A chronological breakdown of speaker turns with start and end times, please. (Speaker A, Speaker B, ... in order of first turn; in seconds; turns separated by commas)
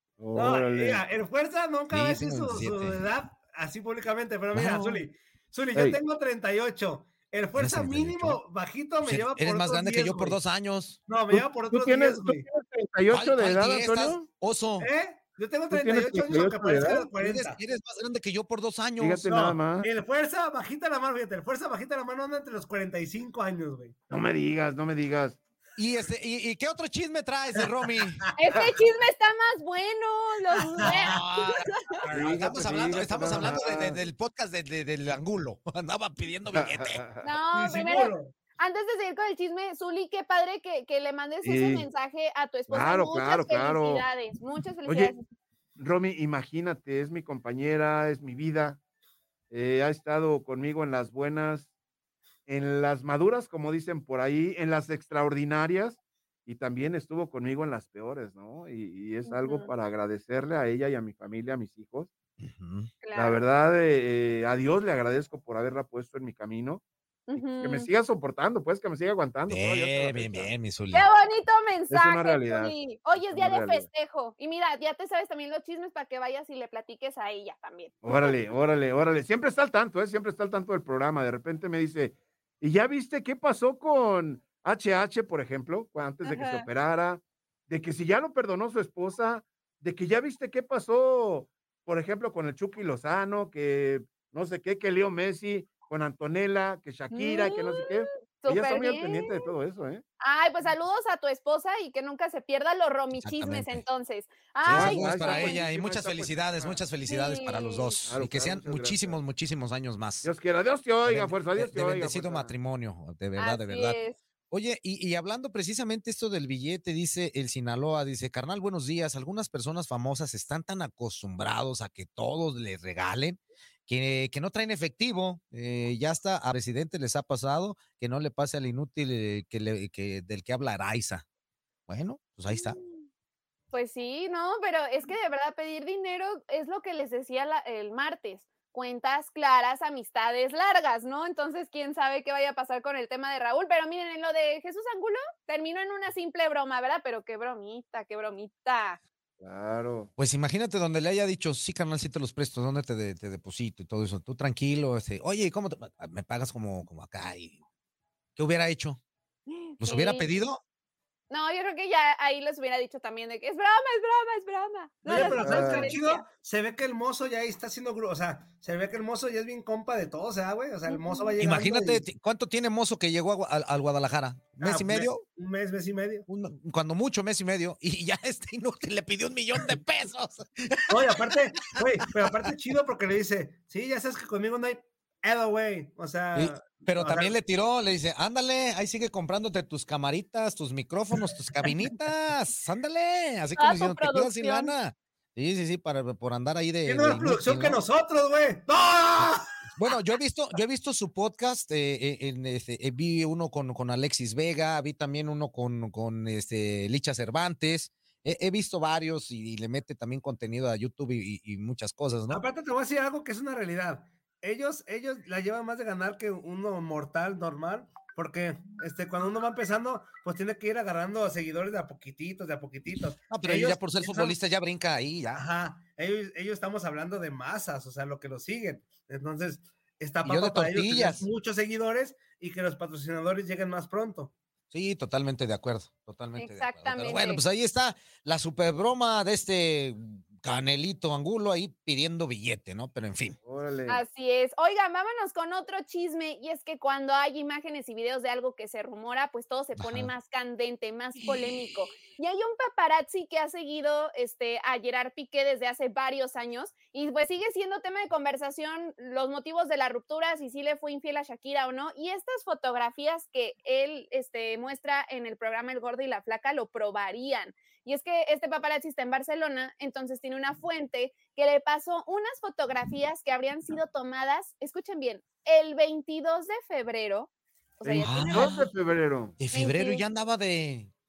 Speaker A: 0.2-1.0, Speaker B: 0.3-10.4, Speaker C: 1.9-3.1, Speaker C: 4.5-5.1, Speaker C: 7.5-8.4, Speaker C: 9.0-11.0, Speaker B: 11.1-12.4, Speaker A: 11.3-14.3, Speaker C: 13.1-14.9, Speaker B: 14.8-17.6, Speaker A: 15.7-17.1, Speaker C: 17.2-19.3, Speaker A: 19.0-19.9, Speaker B: 19.3-23.9, Speaker A: 24.1-25.4, Speaker C: 25.8-28.2, Speaker D: 28.4-31.9, Speaker B: 30.7-31.1, Speaker C: 30.8-37.0, Speaker B: 32.0-33.5, Speaker A: 32.1-34.0, Speaker A: 36.5-37.2, Speaker D: 37.2-45.2, Speaker B: 37.5-38.3, Speaker A: 41.4-41.9, Speaker A: 42.7-44.0, Speaker A: 44.8-45.1, Speaker A: 45.8-48.8, Speaker A: 49.5-51.7, Speaker A: 52.5-62.1, Speaker D: 59.2-59.7, Speaker C: 62.4-62.9, Speaker D: 63.0-63.4, Speaker A: 63.1-66.8, Speaker D: 67.3-67.9, Speaker A: 67.4-70.5, Speaker C: 69.5-71.0, Speaker D: 70.9-78.3, Speaker A: 71.9-73.9, Speaker A: 78.0-100.0, Speaker D: 86.2-86.7, Speaker D: 97.1-99.5, Speaker D: 100.2-105.6, Speaker C: 103.2-103.8, Speaker C: 104.6-110.3, Speaker A: 104.7-106.8, Speaker D: 107.1-107.9, Speaker A: 108.1-109.2, Speaker A: 110.2-112.5, Speaker C: 111.0-114.0, Speaker D: 113.4-114.2, Speaker C: 114.5-131.2, Speaker C: 131.9-132.8, Speaker D: 132.5-133.1, Speaker D: 133.7-149.0, Speaker A: 149.4-150.1, Speaker C: 150.2-157.6, Speaker C: 158.3-159.0, Speaker D: 159.5-160.3, Speaker C: 159.8-160.6, Speaker D: 161.3-166.2, Speaker B: 165.0-172.0, Speaker A: 165.1-165.9, Speaker D: 170.9-171.3, Speaker C: 171.4-175.2, Speaker B: 174.6-176.2, Speaker C: 176.3-181.4, Speaker B: 180.9-187.3, Speaker C: 186.3-197.8, Speaker D: 193.6-194.7, Speaker B: 196.8-199.5, Speaker C: 199.2-212.4, Speaker B: 212.3-224.3, Speaker C: 223.3-225.4, Speaker B: 225.3-234.3, Speaker C: 230.2-231.3, Speaker C: 234.7-243.4, Speaker D: 236.4-237.4, Speaker A: 243.4-244.0, Speaker D: 243.9-278.6, Speaker C: 249.8-250.1, Speaker C: 251.2-251.7, Speaker C: 278.0-278.6, Speaker A: 278.2-279.4, Speaker C: 279.4-280.9, Speaker D: 279.5-280.0